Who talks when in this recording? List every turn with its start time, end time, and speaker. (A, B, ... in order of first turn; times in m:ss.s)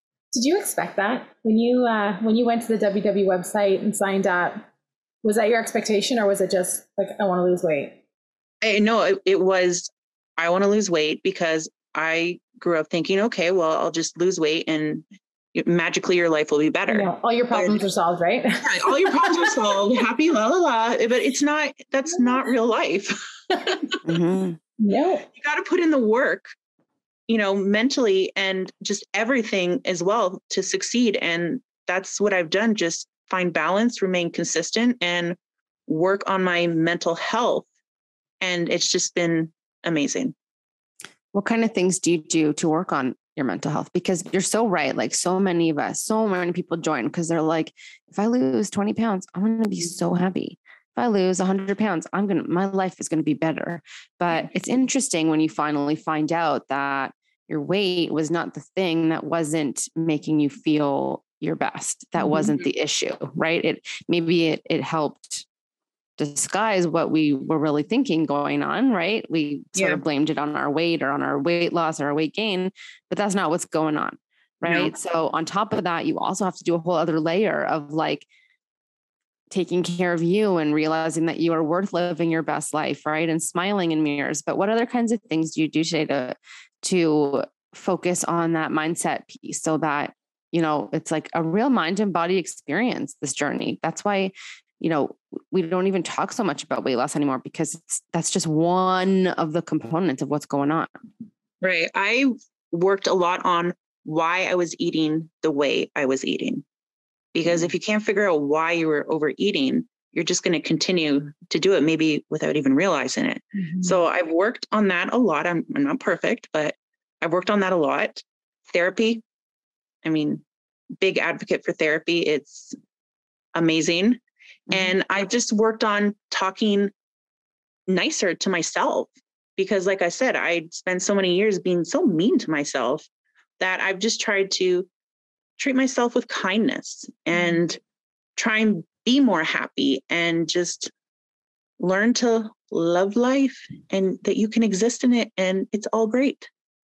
0:00.3-0:04.6 A
0:05.2-0:08.0 A
0:08.6-0:17.8 B
0:16.9-0:19.7 A
0:18.6-0:24.0 B
0:22.1-0:22.5 A
0:24.0-0:24.6 C
0:24.8-0:25.3 A
0:25.4-0:26.5 B
0:27.3-0:37.7 B
0:38.4-0:40.3 B
0:41.3-1:05.5 C
1:02.3-1:02.7 B
1:06.2-1:18.3 C
1:09.8-1:10.0 B
1:14.6-1:14.9 B
1:19.5-1:40.9 C
1:41.6-1:46.6 B
1:47.3-1:59.2 B
1:53.6-1:54.0 A
2:00.0-2:00.4 B
2:01.0-2:02.8 B
2:03.6-2:06.9 B
2:07.9-2:14.9 B
2:15.6-2:17.8 B
2:18.4-2:20.9 B
2:21.8-2:26.5 B